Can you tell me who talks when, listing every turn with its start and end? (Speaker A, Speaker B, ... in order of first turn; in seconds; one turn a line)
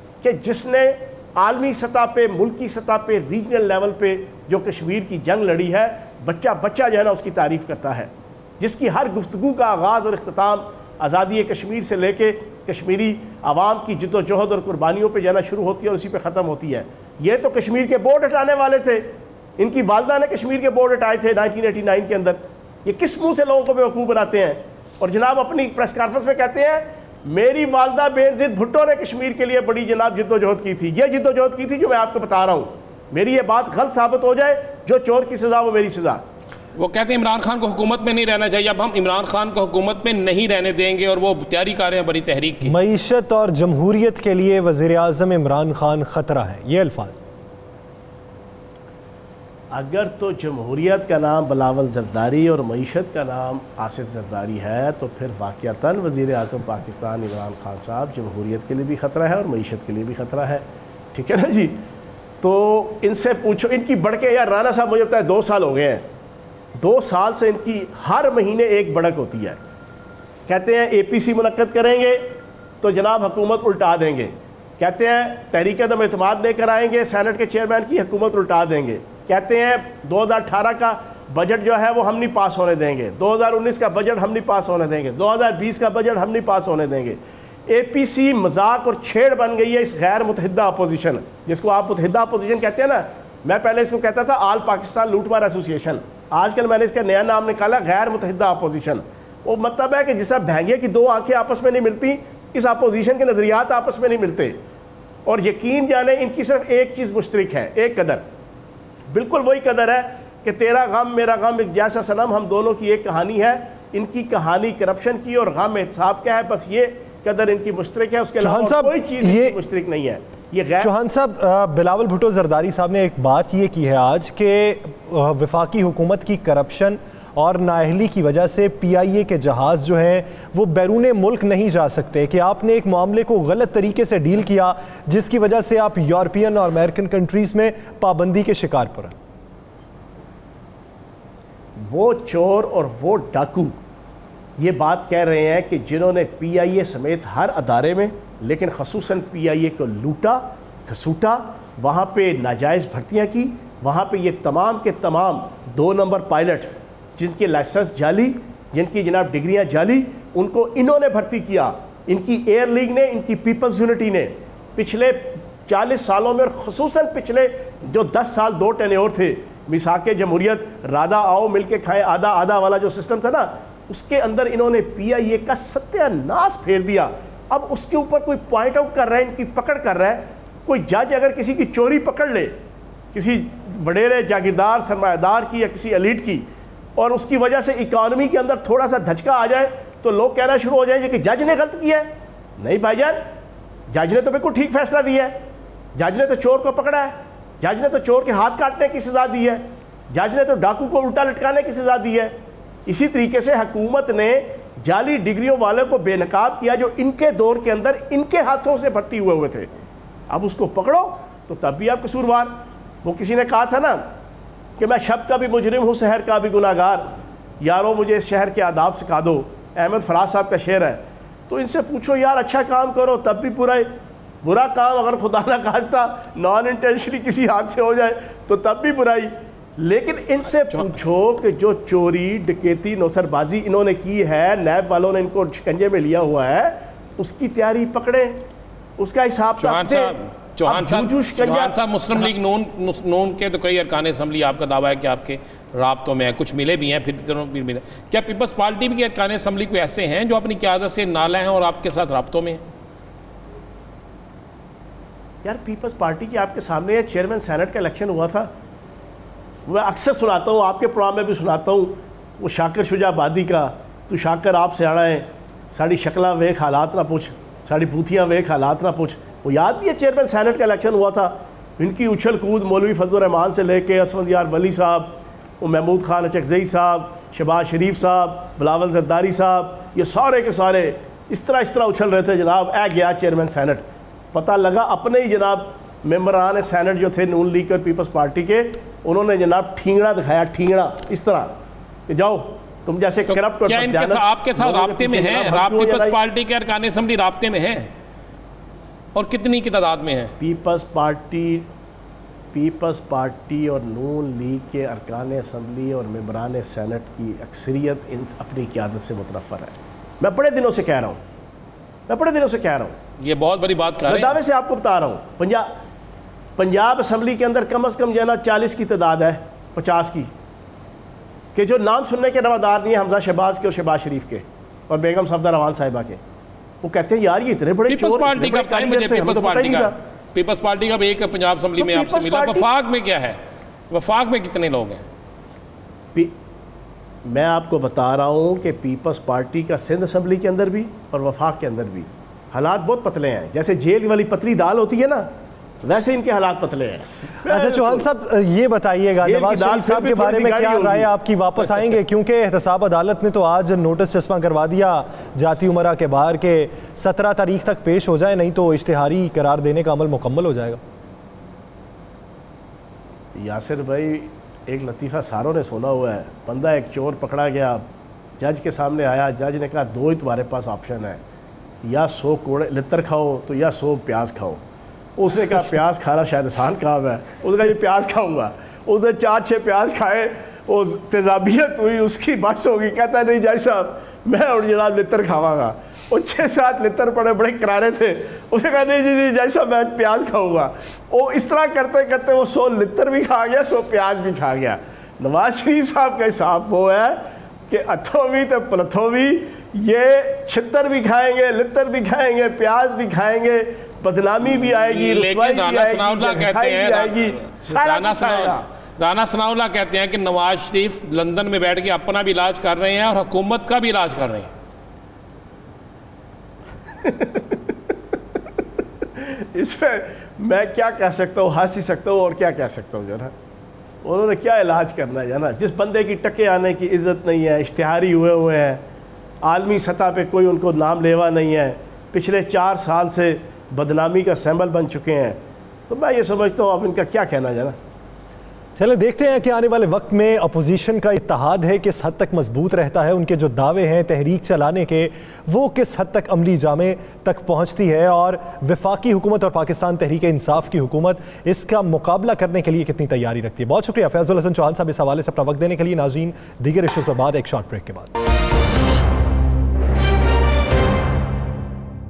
Speaker A: 0.2-36.2
Speaker B: 36.8-42.7
Speaker C: 42.6-47.2
Speaker A: 49.7-61.8
Speaker A: 62.4-66.1
Speaker A: 66.8-69.6
Speaker A: 70.5-104.6
Speaker A: 105.3-108.2
Speaker A: 109.1-120.9
Speaker C: 118.4-119.6
Speaker C: 120.8-139.2
Speaker A: 141.8-143.8
Speaker A: 144.6-182.6
Speaker A: 183.1-193.3
Speaker A: 193.9-195.4
Speaker A: 196.0-209.7
Speaker A: 210.3-214.2
Speaker A: 214.8-238.4
Speaker A: 239.0-242.3
Speaker B: 239.6-252.6
Speaker A: 255.4-258.5
Speaker A: 259.7-291.6
Speaker A: 292.1-296.2
Speaker B: 293.3-297.9
Speaker B: 299.1-300.3
Speaker A: 300.4-301.7
Speaker A: 302.5-311.2
Speaker A: 312.1-313.0
Speaker B: 313.2-314.4
Speaker A: 314.1-315.7
Speaker A: 316.6-320.3
Speaker A: 321.6-326.2
Speaker A: 326.8-330.0
Speaker B: 327.9-333.4
Speaker A: 331.8-332.7
Speaker B: 333.9-335.0
Speaker A: 337.2-348.1
Speaker C: 347.4-360.8
Speaker A: 349.2-351.1
Speaker A: 363.4-367.9
Speaker A: 368.4-371.2
Speaker A: 371.8-374.6
Speaker A: 375.2-408.6
Speaker B: 404.4-414.5
Speaker A: 416.9-417.8
Speaker A: 419.2-423.3
Speaker A: 424.0-428.8
Speaker A: 429.4-437.8
Speaker C: 438.8-458.1